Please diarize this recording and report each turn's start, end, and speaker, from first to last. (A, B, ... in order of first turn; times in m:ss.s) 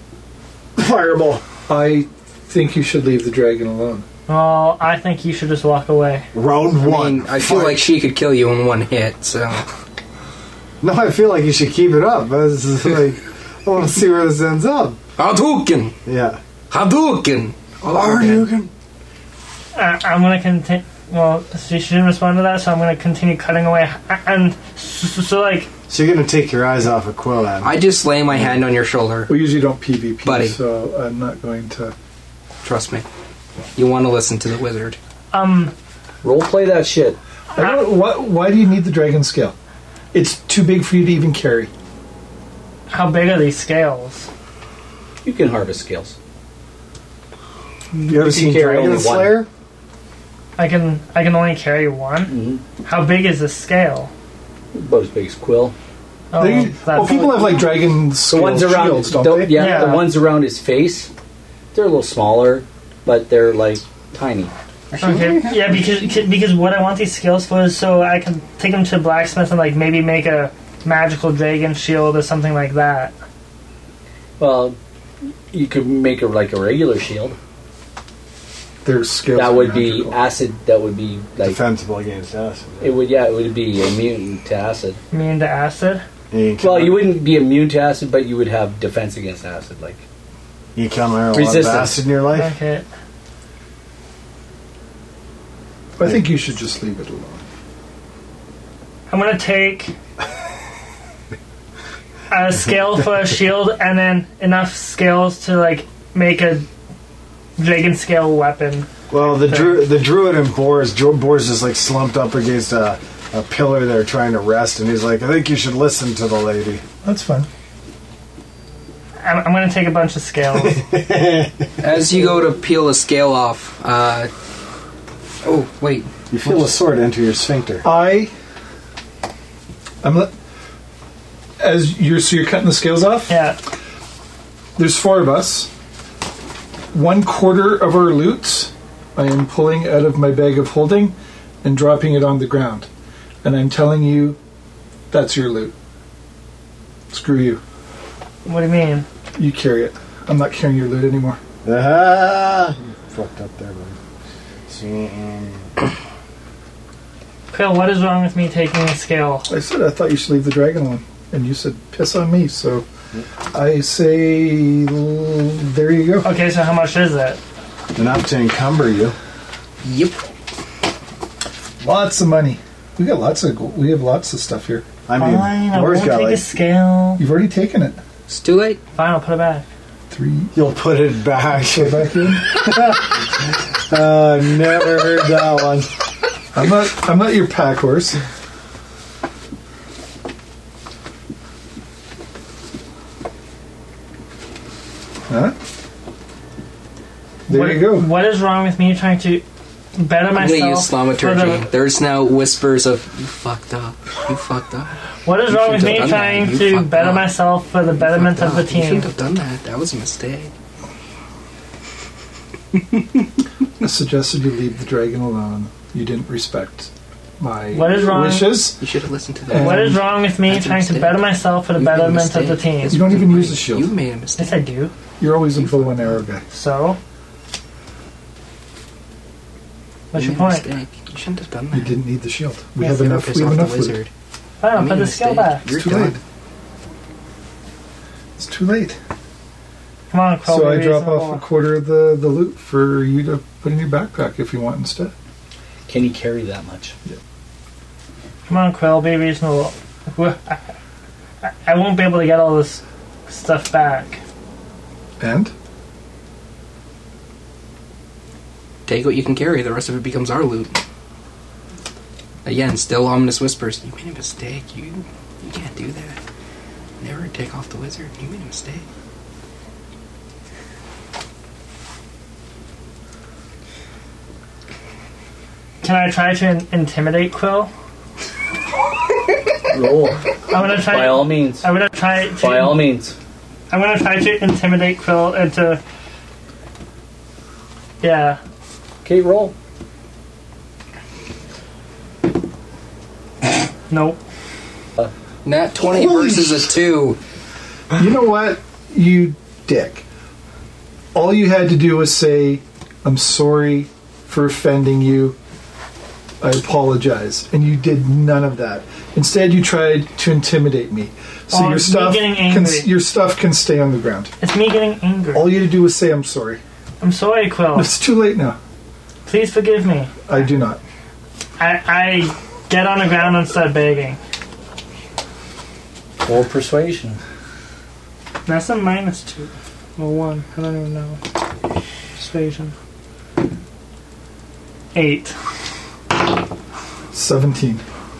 0:00.8-0:01.4 A
0:01.7-0:04.0 B
0:04.3-0:06.2 C
0:06.3-0:07.9 A
0:06.8-0:09.6 D
0:10.8-0:15.0 A
0:15.2-0:16.0 D
0:16.0-0:16.4 A
0:16.7-0:18.5 D
0:17.8-0:18.7 A
0:19.7-0:25.7 C
0:25.9-0:27.8 A
0:27.6-0:29.4 D
0:29.3-0:31.9 B
0:30.2-0:30.6 D
0:32.6-0:33.0 D
0:33.8-0:35.0 D
0:35.3-0:35.7 C
0:36.2-0:37.2 E
0:37.5-0:39.5 B
0:37.6-0:37.8 C
0:40.1-0:41.7 B
0:42.9-0:44.3 C
0:45.2-0:46.2 E
0:48.0-0:49.4 E
0:48.1-0:49.5 A
0:50.6-0:54.1 C
0:52.3-0:52.6 E
0:54.7-0:55.7 E
0:56.3-0:57.7 C
0:56.4-1:00.0 B
0:58.2-1:01.1 E
0:59.5-1:00.1 C
1:01.7-1:04.5 E
1:04.9-1:05.8 D
1:05.0-1:13.1 C
1:14.4-1:14.8 E
1:15.5-1:17.4 E
1:18.8-1:20.2 B
1:19.3-1:21.6 E
1:21.4-1:22.9 A
1:22.8-1:25.0 E
1:25.1-1:26.0 C
1:26.3-1:27.0 A
1:26.6-1:30.0 E
1:30.7-1:32.5 A
1:31.3-1:32.0 E
1:32.3-1:32.9 C
1:36.0-1:37.4 B
1:39.1-1:39.9 C
1:42.3-1:46.7 C
1:47.6-1:49.8 C
1:49.1-1:56.8 A
1:57.0-1:57.5 B
1:59.2-2:00.8 C
2:00.5-2:02.4 A
2:01.8-2:04.3 D
2:05.4-2:06.6 D
2:06.3-2:07.8 A
2:07.8-2:08.3 B
2:10.0-2:10.3 B
2:11.6-2:13.3 B
2:13.3-2:13.6 C
2:14.8-2:15.7 B
2:16.9-2:22.9 B
2:23.4-2:24.4 B
2:25.1-2:25.7 B
2:27.1-2:27.6 B
2:28.4-2:29.0 C
2:29.4-2:31.4 B
2:31.6-2:34.0 A
2:34.7-2:35.7 A
2:37.5-2:39.5 C
2:39.5-2:42.8 B
2:43.5-2:46.3 B
2:46.2-2:47.4 C
2:47.9-2:49.1 A
2:49.8-2:50.2 D
2:51.8-2:54.8 B
2:55.1-2:56.4 A
2:55.2-2:57.2 C
2:57.2-2:58.0 B
2:58.3-2:58.8 D
2:59.0-2:59.6 C
3:00.1-3:00.5 B
3:00.5-3:05.9 A
3:01.5-3:02.4 B
3:06.5-3:08.2 B
3:15.3-3:15.5 B
3:17.5-3:18.1 B
3:17.5-3:19.4 C
3:20.0-3:21.6 C
3:20.3-3:25.0 D
3:25.2-3:29.1 C
3:25.5-3:27.3 D
3:28.0-3:30.5 D
3:33.8-3:38.8 B
3:37.7-3:38.7 C
3:38.8-3:44.6 D
3:39.5-3:40.0 B
3:39.5-3:43.0 C
3:42.9-3:43.9 B
3:44.4-3:44.9 C
3:45.2-3:46.4 B
3:46.5-3:47.0 C
3:50.1-3:50.7 C
3:50.1-3:52.0 D
3:51.7-3:54.0 B
3:52.8-3:54.1 D
3:54.6-3:55.7 C
3:54.7-3:56.2 D
3:55.7-3:56.2 B
3:58.4-3:59.0 B
4:00.1-4:01.4 C
4:00.5-4:05.1 B
4:05.9-4:06.9 E
4:08.5-4:10.6 C
4:11.4-4:14.2 C
4:15.2-4:15.5 B
4:18.9-4:20.8 D
4:22.4-4:26.2 D
4:27.0-4:28.8 D
4:35.8-4:37.7 C
4:39.7-4:41.7 E
4:40.5-4:42.8 C
4:42.4-4:43.1 E
4:43.7-4:45.8 C
4:48.0-4:48.4 C
4:49.0-4:49.5 E
4:53.9-4:54.2 C
4:55.4-4:57.2 D
4:57.9-5:00.0 B
5:01.1-5:05.4 B
5:06.4-5:14.3 B
5:11.5-5:12.9 C
5:14.4-5:15.5 C
5:15.3-5:16.6 B
5:17.0-5:17.9 C
5:17.7-5:18.6 B
5:19.2-5:20.1 C
5:20.3-5:20.8 B
5:21.6-5:24.2 C
5:26.2-5:27.2 E
5:28.4-5:31.2 C
5:32.2-5:32.7 C
5:34.9-5:35.3 C
5:37.1-5:37.8 B